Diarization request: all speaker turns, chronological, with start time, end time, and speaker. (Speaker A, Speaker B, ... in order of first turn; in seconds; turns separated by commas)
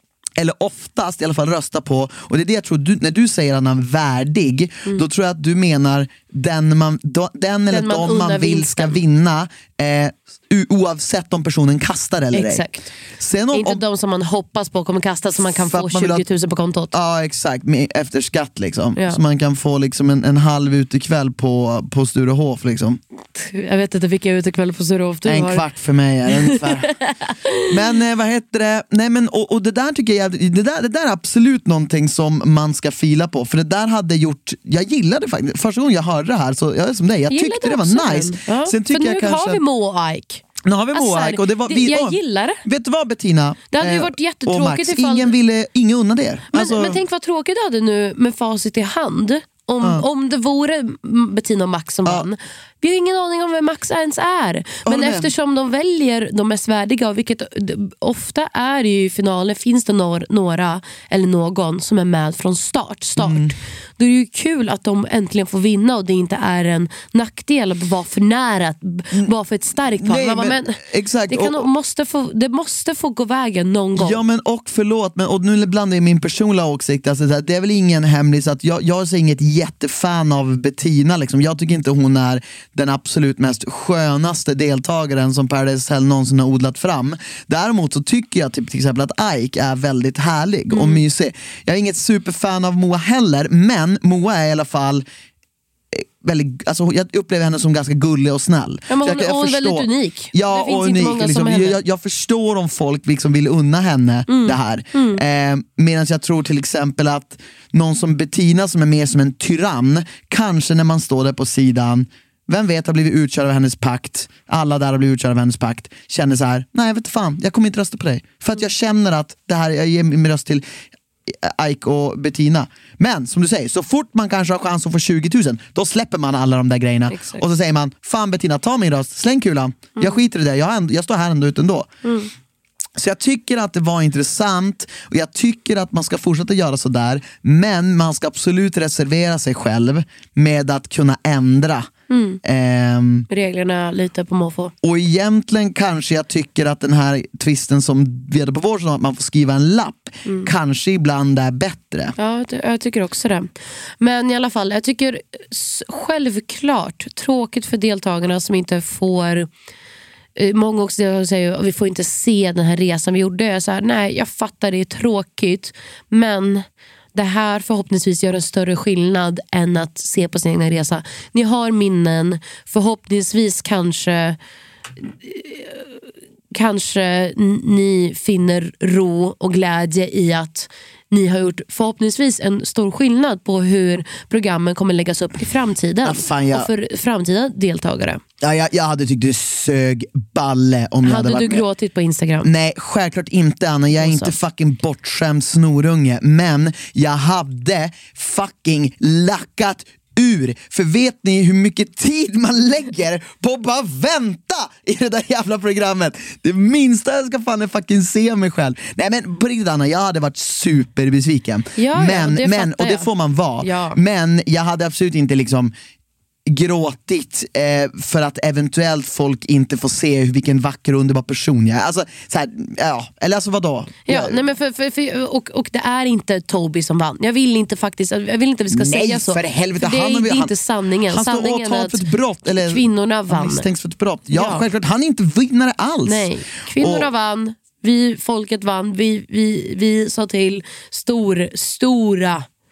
Speaker A: 0.4-12.6, Speaker B: 7.7-9.0, Speaker B: 12.3-12.9, Speaker A: 13.2-13.8, Speaker B: 13.5-16.9, Speaker A: 15.4-16.2, Speaker A: 16.9-23.0, Speaker B: 23.3-25.6, Speaker A: 25.2-26.9, Speaker B: 26.4-27.7, Speaker A: 27.7-39.6, Speaker B: 37.3-42.6, Speaker A: 40.6-47.0, Speaker B: 43.7-45.3, Speaker B: 46.5-74.2, Speaker A: 49.8-50.0, Speaker A: 54.8-55.3, Speaker A: 63.2-63.5, Speaker A: 70.0-71.6, Speaker A: 74.0-95.0, Speaker B: 90.7-91.0, Speaker A: 95.9-120.7, Speaker B: 98.9-101.8, Speaker B: 104.3-105.2, Speaker A: 121.3-131.9, Speaker B: 127.1-127.5, Speaker B: 132.0-132.3, Speaker A: 132.9-141.9, Speaker B: 142.1-142.4, Speaker A: 142.4-143.3, Speaker B: 143.3-144.7, Speaker A: 144.8-152.1, Speaker B: 150.2-150.5, Speaker B: 152.2-159.5, Speaker B: 160.3-174.4, Speaker B: 175.0-188.2, Speaker A: 186.0-186.7, Speaker A: 188.4-191.7, Speaker B: 191.0-192.5, Speaker A: 192.4-215.7, Speaker B: 193.9-194.3, Speaker B: 211.8-213.1, Speaker B: 213.6-214.0, Speaker A: 216.4-224.4, Speaker B: 224.1-233.7, Speaker A: 228.7-230.5, Speaker A: 231.1-237.1, Speaker B: 234.3-234.7, Speaker B: 236.0-242.4